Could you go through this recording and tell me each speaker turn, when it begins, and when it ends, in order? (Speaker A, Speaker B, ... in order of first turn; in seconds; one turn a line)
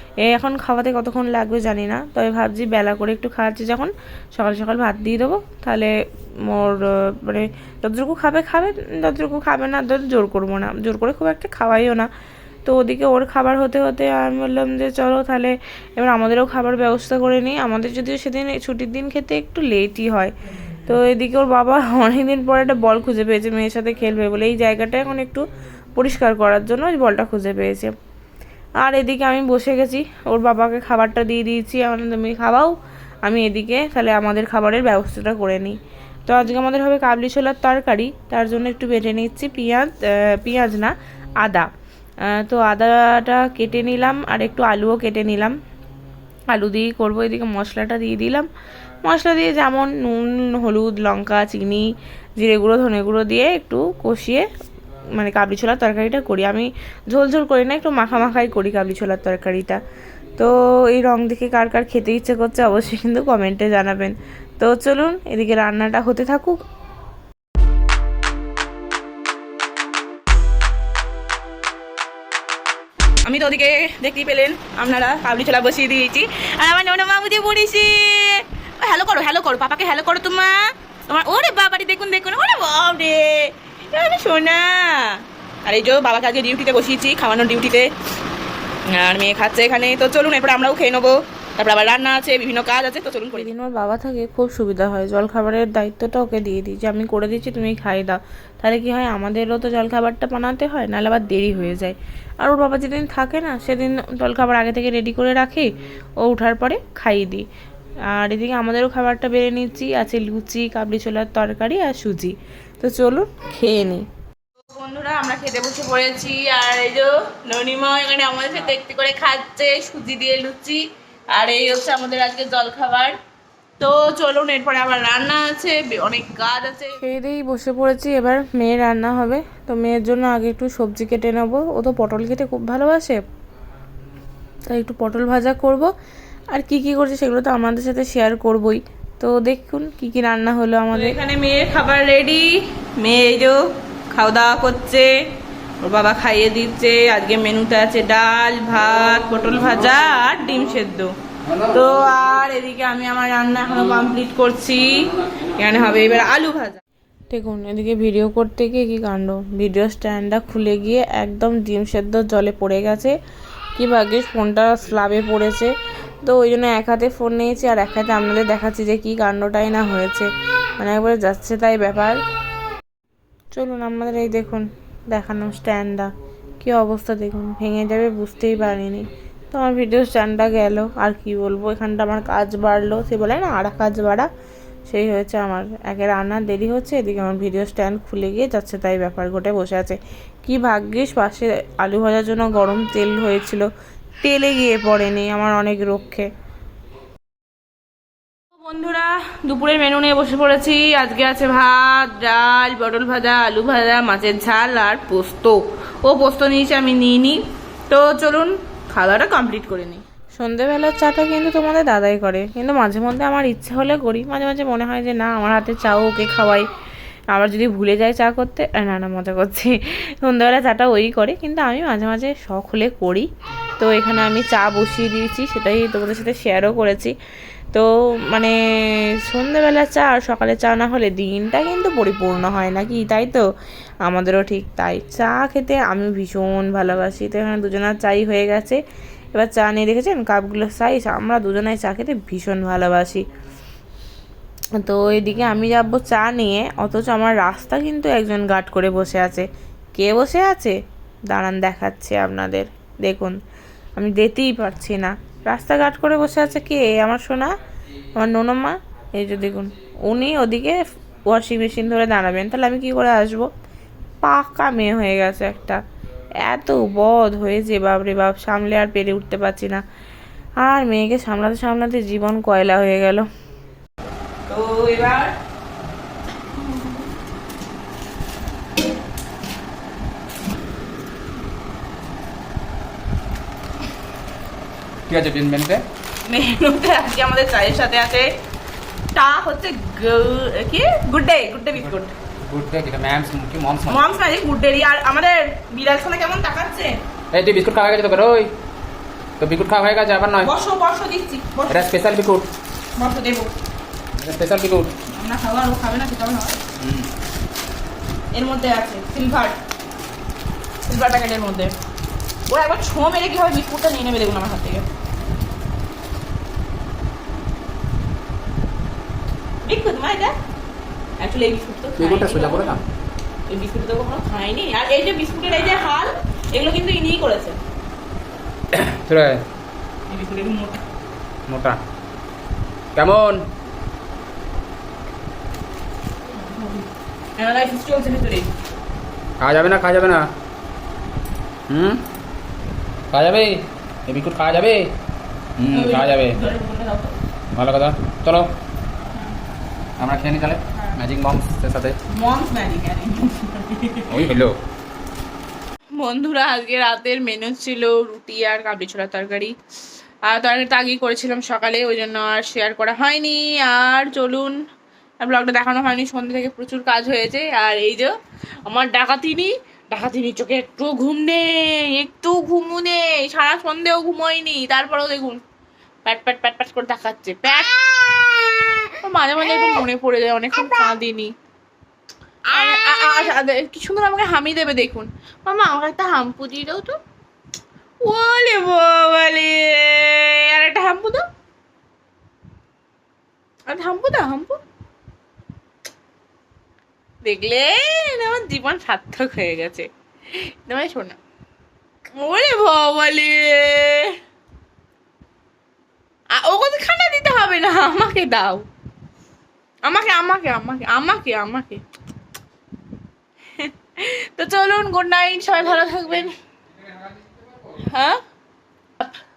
Speaker A: 0.2-5.9
Speaker A: 6.5-12.1
Speaker A: 12.7-20.3
Speaker A: 20.8-27.9
Speaker A: 28.8-32.7
Speaker A: 33.2-41.7
Speaker A: 42.3-45.6
Speaker A: 46.5-48.5
Speaker A: 49.0-54.5
Speaker A: 55.1-59.8
Speaker A: 60.4-66.6
Speaker B: 73.2-87.9
Speaker B: 88.9-93.5
Speaker A: 93.3-107.5
Speaker A: 108.1-114.0
Speaker B: 114.7-123.2
Speaker B: 123.8-127.0
Speaker A: 127.0-133.2
Speaker A: 134.7-135.9
Speaker A: 136.5-141.2
Speaker B: 140.9-143.6
Speaker B: 144.1-145.1
Speaker B: 145.8-156.8
Speaker C: 151.5-151.7
Speaker A: 157.3-163.2
Speaker A: 163.8-165.7
Speaker A: 166.2-172.2
Speaker A: 173.5-184.3
Speaker A: 184.9-193.7
Speaker A: 194.2-196.3
Speaker B: 198.6-210.0
Speaker A: 210.4-216.7
Speaker A: 217.3-223.3
Speaker A: 223.8-227.2
Speaker A: 227.7-233.5
Speaker A: 234.1-238.8
Speaker A: 239.3-243.2
Speaker A: 244.8-250.8
Speaker A: 251.3-253.4
Speaker A: 253.9-257.5
Speaker A: 258.2-263.5
Speaker A: 264.2-265.8
Speaker A: 266.4-269.8
Speaker A: 270.6-273.3
Speaker B: 274.5-275.4
Speaker B: 276.6-277.0
Speaker C: 285.1-285.9
Speaker B: 286.2-288.3
Speaker B: 289.1-292.1
Speaker C: 292.4-294.0
Speaker B: 293.9-297.0
Speaker C: 297.3-298.5
Speaker C: 299.4-300.5
Speaker B: 300.4-301.9
Speaker C: 301.7-302.5
Speaker B: 302.9-303.5
Speaker C: 304.2-304.9
Speaker B: 305.1-306.6
Speaker C: 306.8-307.1
Speaker B: 308.3-309.6
Speaker B: 310.9-311.8
Speaker B: 312.5-314.9
Speaker B: 319.6-320.4
Speaker B: 321.2-322.8
Speaker C: 322.0-322.8
Speaker B: 323.5-327.6
Speaker C: 328.7-329.4
Speaker B: 330.1-330.8
Speaker C: 331.5-331.8
Speaker C: 332.9-333.4
Speaker B: 336.4-338.5
Speaker C: 339.4-340.3
Speaker C: 341.7-342.0
Speaker C: 343.1-344.9
Speaker C: 345.6-346.4
Speaker B: 345.7-347.2
Speaker C: 347.5-348.5
Speaker C: 350.0-352.0
Speaker B: 352.1-354.2
Speaker C: 354.1-354.5
Speaker B: 355.9-359.6
Speaker B: 360.2-364.6
Speaker B: 365.2-368.1
Speaker B: 368.6-375.4
Speaker B: 376.1-381.3
Speaker B: 382.5-387.0
Speaker B: 388.0-391.3
Speaker B: 393.7-394.6
Speaker B: 397.2-401.2
Speaker B: 402.1-404.2
Speaker B: 406.3-408.7
Speaker B: 409.8-411.8
Speaker B: 413.6-416.4
Speaker B: 417.7-418.2